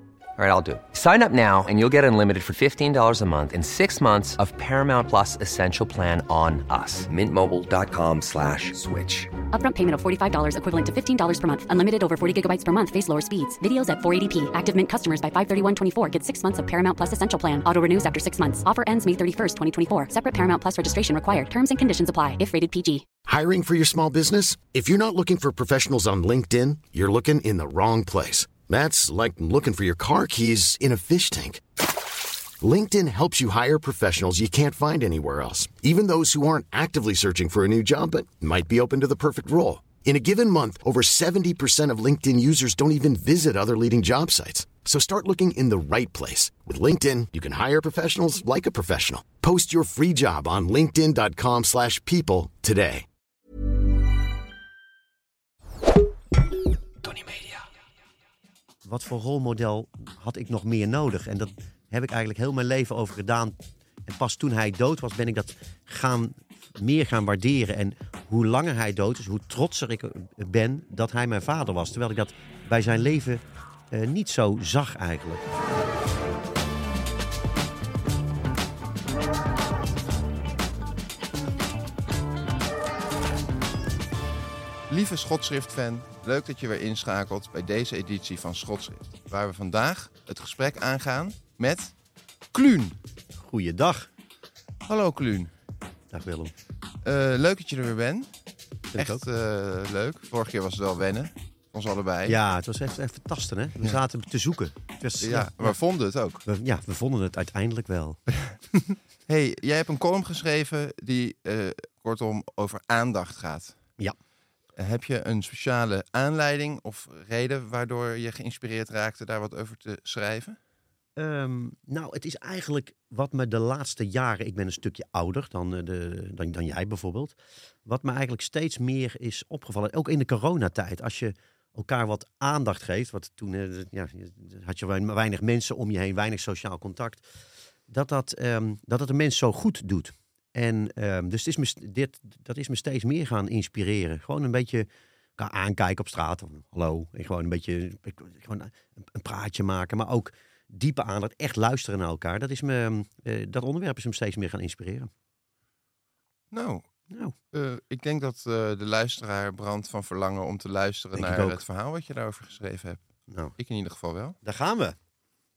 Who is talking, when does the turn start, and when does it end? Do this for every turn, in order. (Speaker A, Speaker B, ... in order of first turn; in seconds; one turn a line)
Speaker A: 0.4-9.3
Speaker B: 9.5-23.1
Speaker C: 23.3-31.6
Speaker C: 32.6-53.0
Speaker D: 58.8-63.5
Speaker D: 64.0-75.5
Speaker E: 84.9-91.9
Speaker E: 92.5-93.0
Speaker D: 93.4-94.1
Speaker E: 94.9-95.5
Speaker D: 96.1-96.5
Speaker E: 97.0-98.3
Speaker D: 98.9-99.2
Speaker E: 98.9-102.4
Speaker D: 102.2-105.8
Speaker E: 105.2-106.4
Speaker D: 106.5-109.0
Speaker E: 109.3-113.8
Speaker E: 114.8-120.6
Speaker D: 121.2-137.2
Speaker D: 137.9-155.1
Speaker E: 156.5-156.9
Speaker D: 157.1-157.3
Speaker E: 157.5-164.4
Speaker D: 161.1-161.6
Speaker D: 164.4-165.0